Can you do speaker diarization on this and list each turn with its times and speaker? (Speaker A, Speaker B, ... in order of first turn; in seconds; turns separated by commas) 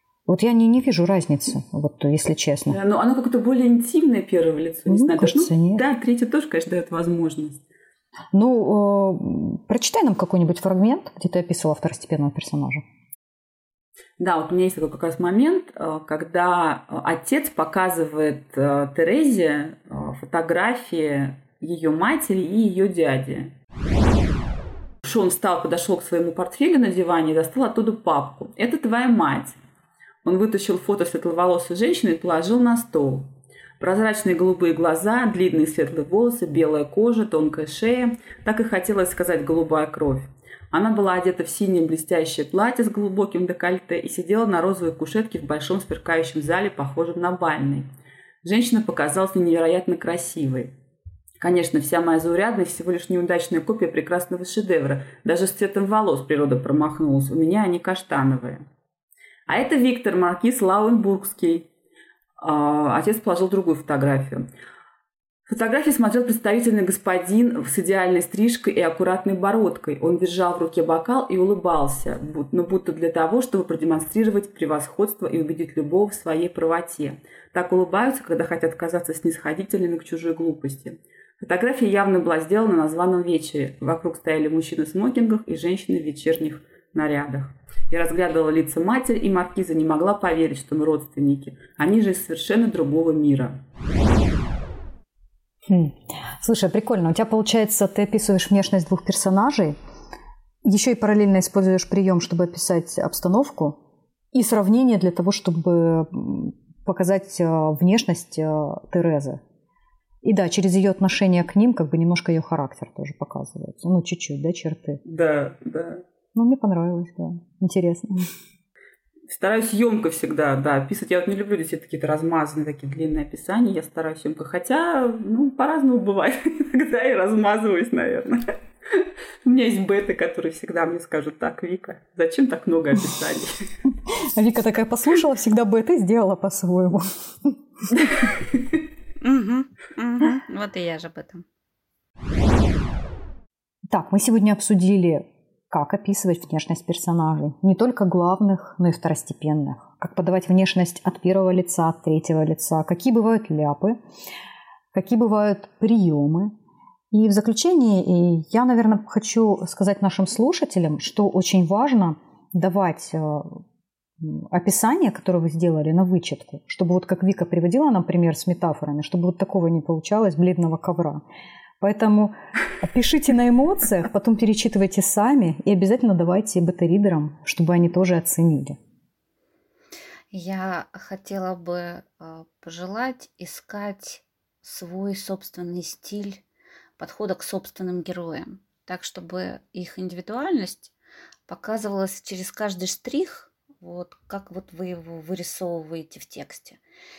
Speaker A: 0.3-2.8, Speaker B: 2.7-7.6, Speaker A: 4.9-5.8, Speaker A: 8.3-12.8, Speaker B: 14.2-23.5, Speaker B: 25.0-29.6, Speaker B: 30.2-47.9, Speaker B: 48.4-50.7, Speaker B: 51.4-58.6, Speaker B: 59.5-61.7, Speaker B: 62.4-64.5, Speaker B: 65.5-93.6, Speaker A: 95.7-99.8, Speaker A: 100.6-103.8, Speaker A: 104.3-109.4, Speaker A: 110.2-115.0, Speaker B: 115.0-116.0, Speaker A: 116.3-118.3, Speaker B: 119.3-133.6, Speaker A: 134.3-138.3, Speaker C: 139.2-141.4, Speaker A: 143.9-154.0, Speaker A: 154.9-156.5, Speaker A: 157.1-163.6, Speaker A: 164.2-171.2, Speaker A: 171.8-178.8, Speaker C: 180.3-186.4, Speaker C: 187.0-190.9, Speaker C: 191.5-196.8